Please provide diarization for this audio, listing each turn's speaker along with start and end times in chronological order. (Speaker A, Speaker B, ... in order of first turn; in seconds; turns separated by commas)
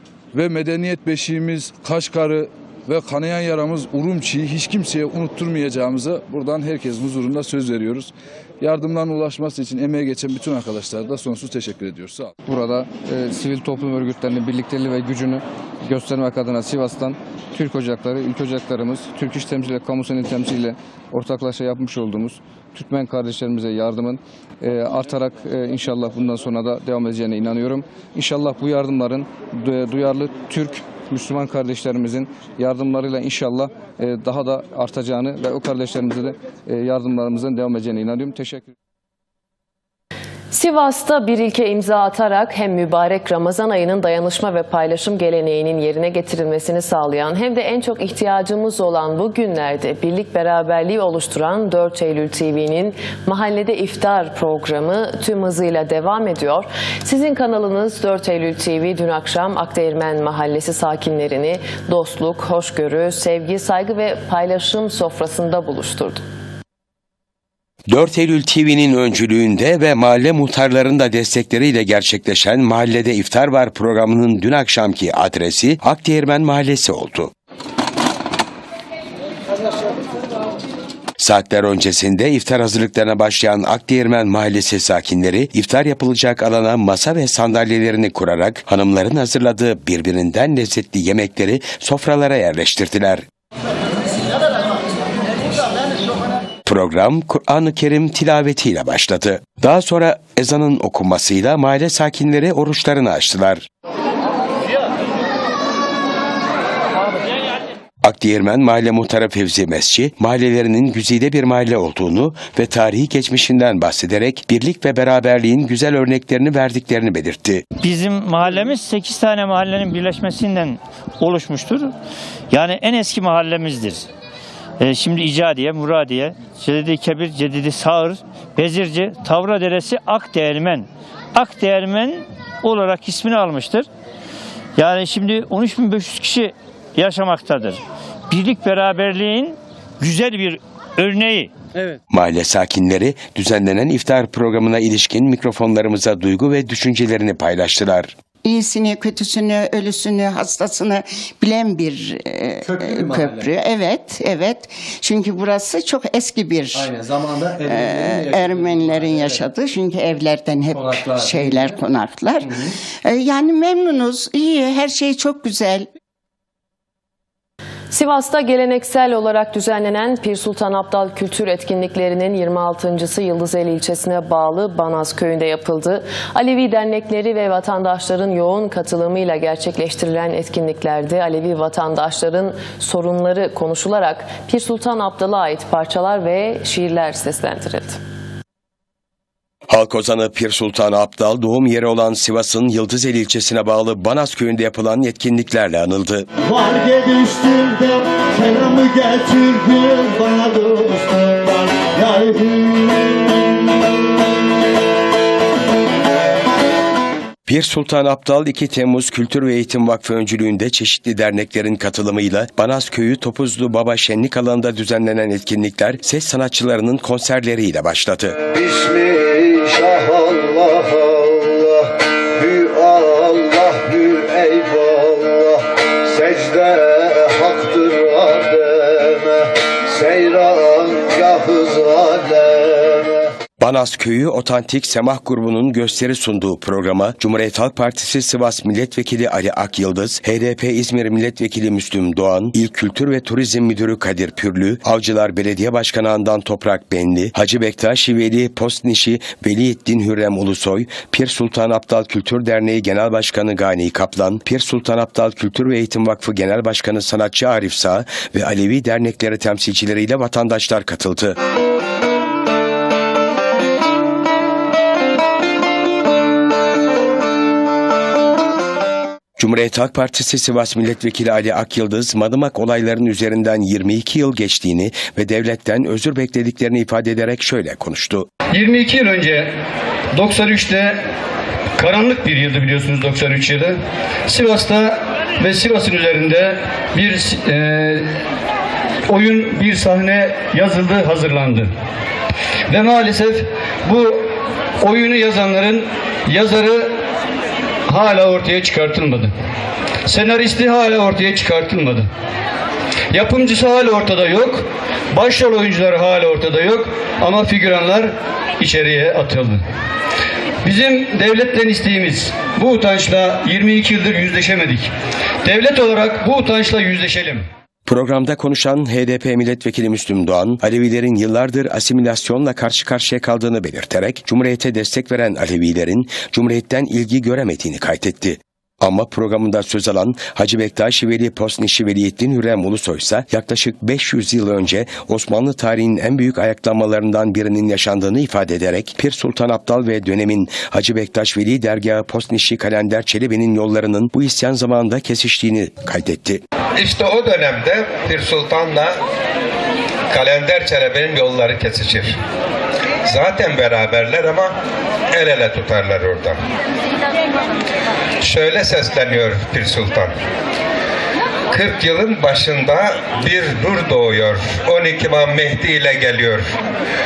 Speaker A: 0.3-12.3, Speaker B: 12.4-38.7, Speaker C: 40.5-66.2, Speaker D: 67.9-77.3, Speaker D: 81.2-93.2, Speaker D: 96.6-103.7, Speaker D: 108.0-117.6, Speaker E: 117.8-121.9, Speaker E: 122.5-124.0, Speaker E: 124.8-133.9, Speaker E: 134.8-141.5, Speaker D: 142.1-148.1, Speaker F: 148.4-156.9, Speaker G: 152.6-153.5, Speaker G: 156.7-159.4, Speaker F: 157.6-165.9, Speaker G: 160.7-161.8, Speaker G: 162.4-162.7, Speaker C: 167.9-188.0, Speaker D: 189.7-196.3, Speaker H: 196.4-203.2, Speaker D: 207.4-218.4, Speaker H: 218.5-233.1, Speaker D: 233.6-261.4, Speaker D: 269.4-278.3, Speaker I: 278.5-279.5, Speaker I: 280.1-281.0, Speaker I: 281.8-288.1, Speaker I: 289.1-291.7, Speaker I: 292.7-294.3, Speaker I: 294.8-296.9, Speaker I: 297.9-299.3, Speaker I: 300.1-302.1, Speaker I: 303.1-309.6, Speaker I: 310.6-314.9, Speaker I: 315.4-317.5, Speaker D: 317.9-346.4, Speaker J: 346.8-349.0, Speaker J: 350.1-352.2, Speaker J: 353.0-354.5, Speaker J: 355.1-356.4, Speaker J: 358.2-360.1, Speaker J: 361.5-366.5